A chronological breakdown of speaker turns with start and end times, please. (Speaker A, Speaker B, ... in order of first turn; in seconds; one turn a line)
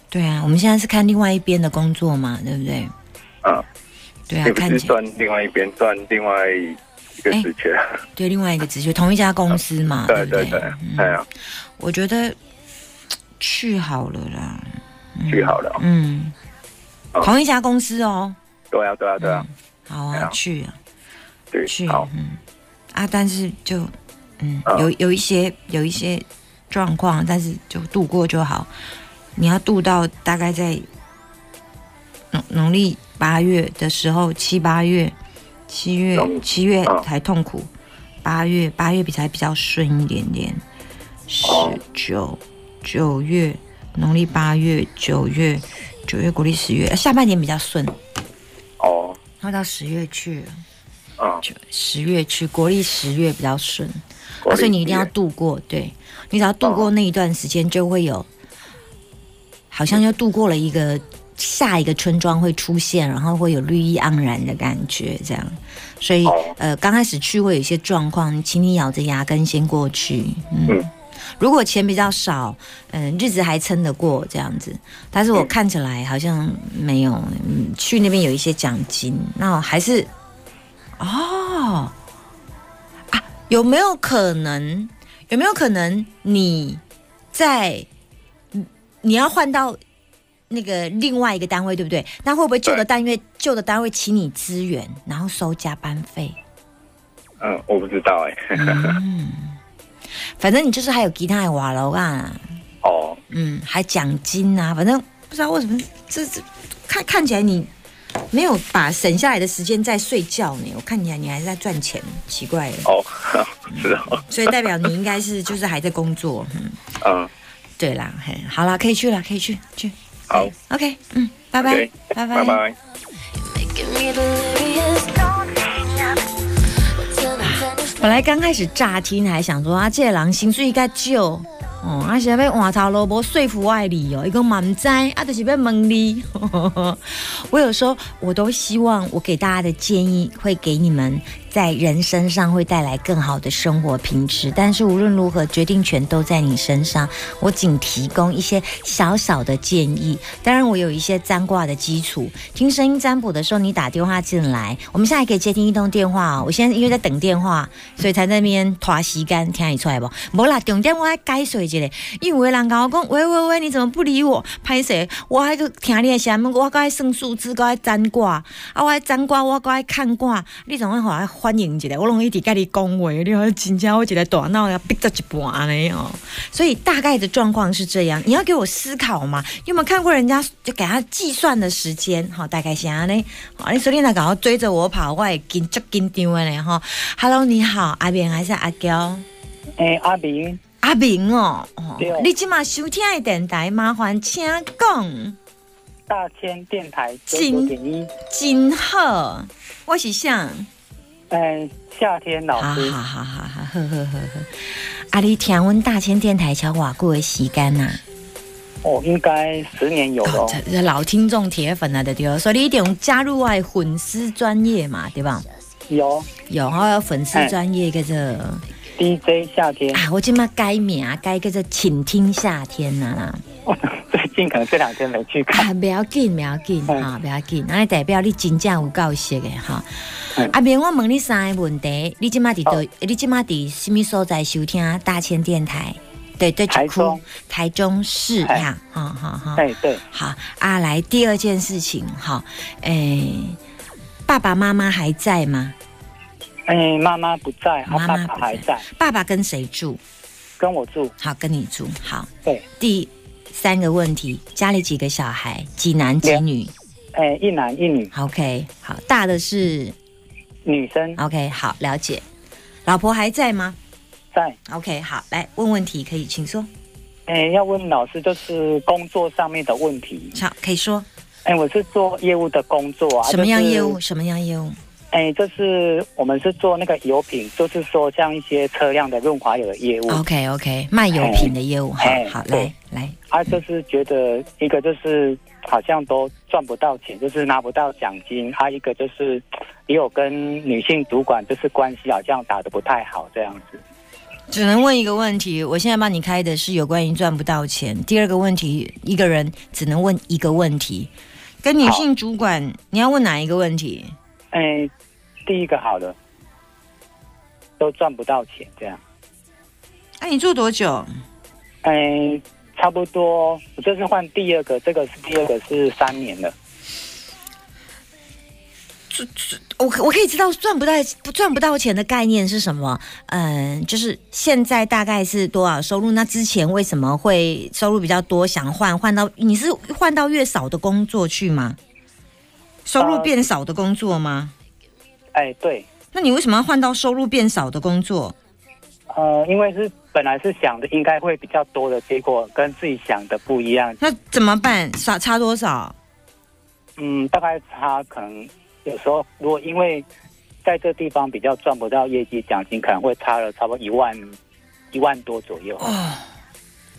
Speaker A: 0.1-2.9
Speaker A: 4.3-4.9
Speaker B: 4.4-8.0
Speaker A: 8.2-11.2
Speaker B: 10.1-11.2
Speaker A: 11.8-12.4
Speaker A: 13.4-16.4
Speaker B: 15.3-15.8
Speaker A: 17.2-18.4
Speaker B: 18.7-19.4
Speaker A: 19.2-20.8
Speaker B: 21.5-22.1
Speaker A: 21.6-22.4
Speaker A: 22.9-28.7
Speaker A: 29.4-30.8
Speaker A: 32.3-35.1
Speaker A: 35.7-37.7
Speaker B: 36.1-37.0
Speaker A: 38.2-40.6
Speaker A: 41.3-48.0
Speaker B: 41.4-41.8
Speaker B: 48.8-49.2
Speaker A: 49.4-50.6
Speaker B: 51.2-51.4
Speaker A: 51.4-58.3
Speaker B: 54.4-55.1
Speaker B: 56.6-56.9
Speaker A: 59.7-80.1
Speaker B: 66.2-66.5
Speaker A: 81.0-81.9
Speaker A: 83.1-86.8
Speaker A: 87.3-87.9
Speaker A: 88.5-89.8
Speaker A: 90.5-96.4
Speaker B: 97.4-99.0
Speaker A: 98.5-99.6
Speaker A: 100.4-102.4
Speaker B: 102.8-103.2
Speaker A: 103.3-107.7
Speaker A: 108.3-112.9
Speaker B: 112.8-114.2
Speaker A: 113.7-116.8
Speaker B: 117.0-117.3
Speaker A: 117.8-122.6
Speaker B: 121.6-122.8
Speaker C: 123.6-126.1
Speaker A: 127.3-189.2
Speaker D: 189.8-190.6
Speaker A: 190.8-195.4
Speaker D: 192.0-192.3
Speaker D: 196.1-198.1
Speaker A: 197.3-197.7
Speaker A: 198.3-200.7
Speaker D: 201.3-203.0
Speaker A: 202.6-208.0
Speaker D: 208.8-210.6
Speaker A: 210.2-215.4
Speaker D: 215.9-216.3
Speaker A: 216.5-218.6
Speaker D: 218.9-220.0
Speaker A: 219.9-223.4
Speaker D: 223.7-225.7
Speaker A: 225.5-243.6
Speaker D: 236.7-237.2
Speaker D: 239.6-240.0
Speaker A: 244.3-245.7
Speaker D: 246.7-248.9
Speaker A: 247.8-250.0
Speaker D: 250.6-251.1
Speaker A: 251.2-256.7
Speaker D: 257.1-258.1
Speaker A: 258.1-259.9
Speaker D: 260.6-261.2
Speaker A: 261.2-262.2
Speaker A: 262.8-263.8
Speaker D: 264.3-264.6
Speaker A: 264.6-266.7
Speaker D: 267.3-270.4
Speaker A: 270.3-271.1
Speaker D: 271.4-274.0
Speaker A: 273.2-274.8
Speaker D: 275.1-280.2
Speaker A: 280.1-283.2
Speaker D: 281.1-282.7
Speaker D: 283.3-293.8
Speaker A: 294.5-301.1
Speaker A: 301.6-304.1
Speaker D: 304.5-304.9
Speaker D: 305.4-306.2
Speaker D: 307.8-309.0
Speaker A: 310.2-311.1
Speaker D: 311.8-316.5
Speaker A: 319.1-331.8
Speaker A: 332.8-334.5
Speaker D: 333.0-333.3
Speaker D: 335.3-335.9
Speaker A: 336.1-338.3
Speaker D: 339.1-344.0
Speaker A: 344.0-345.9
Speaker D: 347.0-350.1
Speaker D: 350.6-354.4
Speaker D: 354.9-355.9
Speaker A: 355.8-356.2